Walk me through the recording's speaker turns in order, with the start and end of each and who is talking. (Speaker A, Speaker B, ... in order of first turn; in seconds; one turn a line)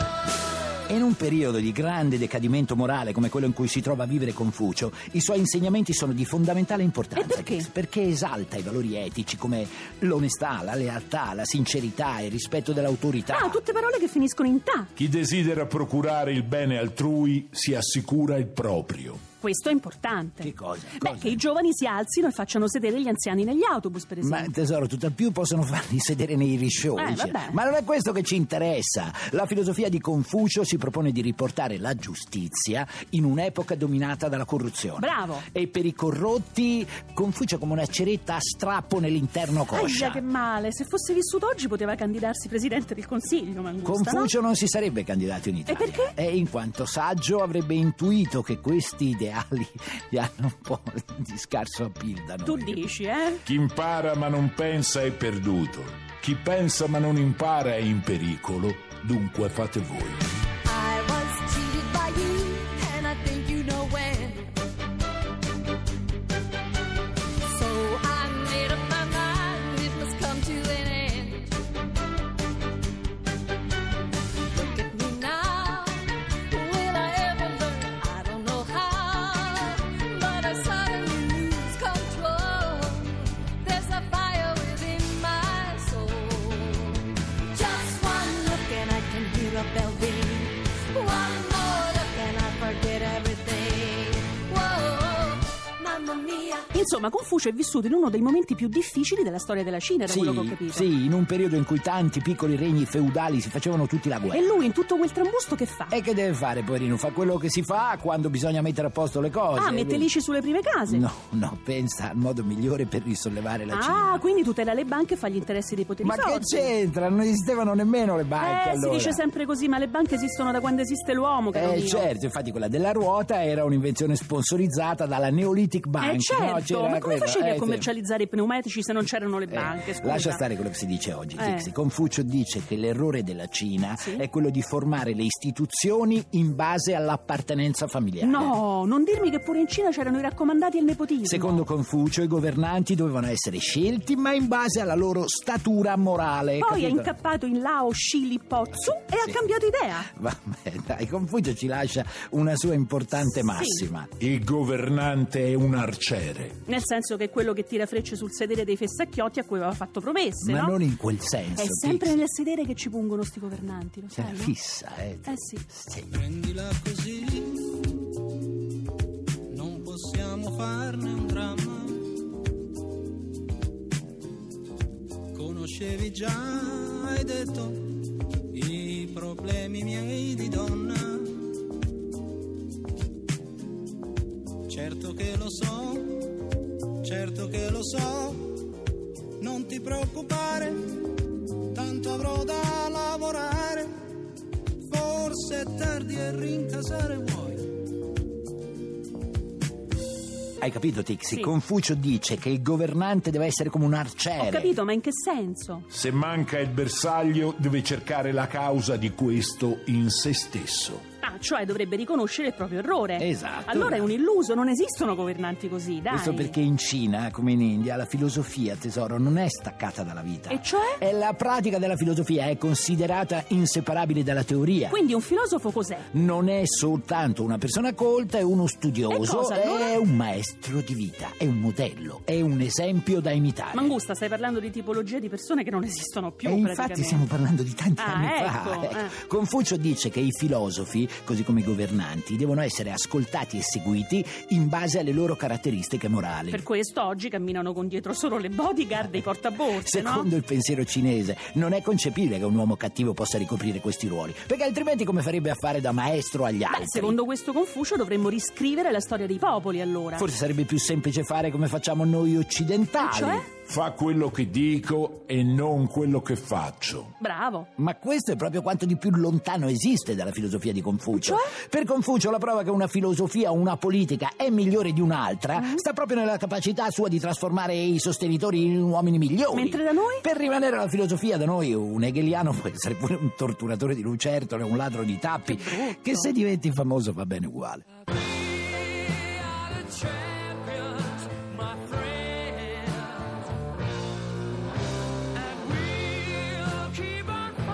Speaker A: 0.9-13.6
Speaker B: 7.2-7.7
Speaker B: 13.3-14.9
Speaker C: 15.0-19.2
Speaker B: 19.4-24.5
Speaker A: 20.4-21.4
Speaker A: 24.2-40.2
Speaker B: 26.9-27.6
Speaker B: 35.0-35.4
Speaker B: 39.7-44.3
Speaker A: 43.8-52.9
Speaker B: 45.7-46.1
Speaker B: 52.4-53.4
Speaker C: 53.5-60.2
Speaker D: 60.6-64.6
Speaker D: 67.5-71.7
Speaker D: 74.5-96.7
Speaker B: 96.7-100.9
Speaker A: 100.0-104.5
Speaker B: 104.3-106.0
Speaker A: 105.9-110.1
Speaker B: 109.5-111.0
Speaker A: 110.9-114.2
Speaker B: 113.7-116.7
Speaker A: 116.0-119.2
Speaker B: 118.4-122.1
Speaker A: 121.5-127.9
Speaker B: 126.0-130.4
Speaker A: 129.5-138.6
Speaker B: 131.4-131.7
Speaker B: 133.9-134.2
Speaker B: 138.2-141.6
Speaker A: 141.2-147.1
Speaker B: 146.6-150.1
Speaker A: 148.7-149.4
Speaker A: 150.0-154.2
Speaker B: 153.3-153.8
Speaker C: 154.2-156.5
Speaker B: 156.7-160.8
Speaker A: 160.4-162.2
Speaker B: 161.6-164.5
Speaker A: 164.1-166.1
Speaker B: 165.2-165.6
Speaker E: 166.1-167.8
Speaker E: 169.5-172.1
Speaker E: 175.3-181.4
Speaker E: 184.7-186.4
Speaker E: 187.0-188.6
Speaker E: 189.4-191.0
Speaker E: 191.7-193.9
Speaker E: 194.8-197.7
Speaker A: 200.6-204.7
Speaker B: 204.4-205.8
Speaker C: 205.9-211.0
Speaker B: 211.2-216.6
Speaker A: 213.2-214.1
Speaker A: 216.1-225.0
Speaker B: 220.5-221.0
Speaker B: 224.9-226.1
Speaker A: 226.1-233.9
Speaker B: 229.1-230.0
Speaker B: 233.7-237.2
Speaker A: 236.4-246.6
Speaker B: 238.0-239.1
Speaker B: 246.5-250.3
Speaker A: 248.9-257.2
Speaker B: 256.7-260.3
Speaker A: 260.1-263.5
Speaker B: 263.0-263.5
Speaker C: 263.7-267.1
Speaker B: 267.2-267.7
Speaker A: 267.8-287.9
Speaker B: 271.1-271.5
Speaker B: 275.6-275.8
Speaker B: 279.5-280.2
Speaker B: 285.4-286.3